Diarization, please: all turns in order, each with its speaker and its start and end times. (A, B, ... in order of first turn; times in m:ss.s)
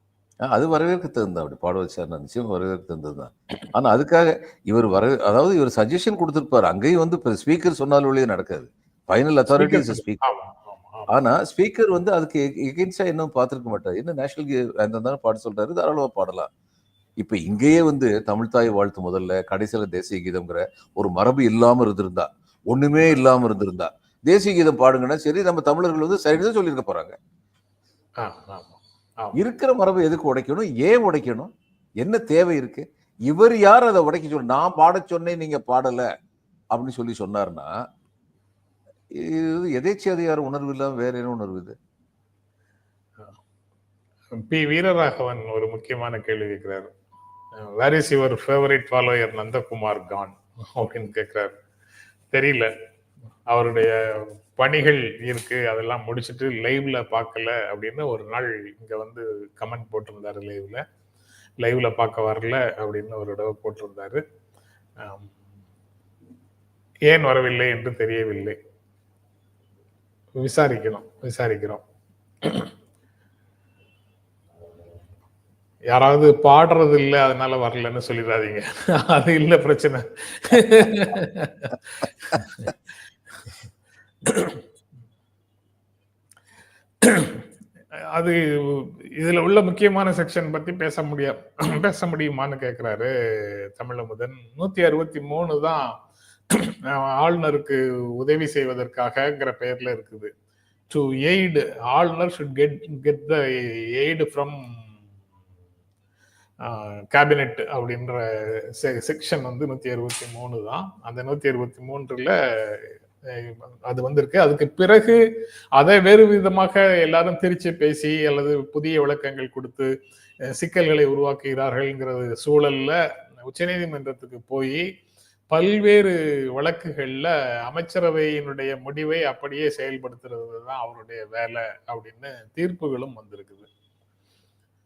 0:00.5-0:10.2 A
0:09.6-0:11.1 B
0:11.1-0:16.5 A
0:17.2-0:27.2 A
0:28.2-0:29.4 B
0:29.4-0:36.1 A
0:36.7-0:37.7 A
0:39.1-0:41.8 A
0:44.4-0:46.9 B
0:47.6-0:51.5 B
0:52.3-0:52.7 B
0:53.5-1:00.8 B
1:01.6-1:04.2 B
1:05.0-1:05.4 B
1:07.1-1:08.6 B
1:10.4-1:11.8 B
1:12.4-1:12.7 B
1:15.9-1:22.8 B
1:24.2-1:24.6 B
1:27.0-1:27.4 B
1:28.1-1:35.9 B
1:36.5-1:40.3 B
1:40.9-1:44.8 B
1:46.6-1:55.2 B
1:55.8-1:59.9 B
2:00.5-2:04.8 B
2:05.5-2:13.7 B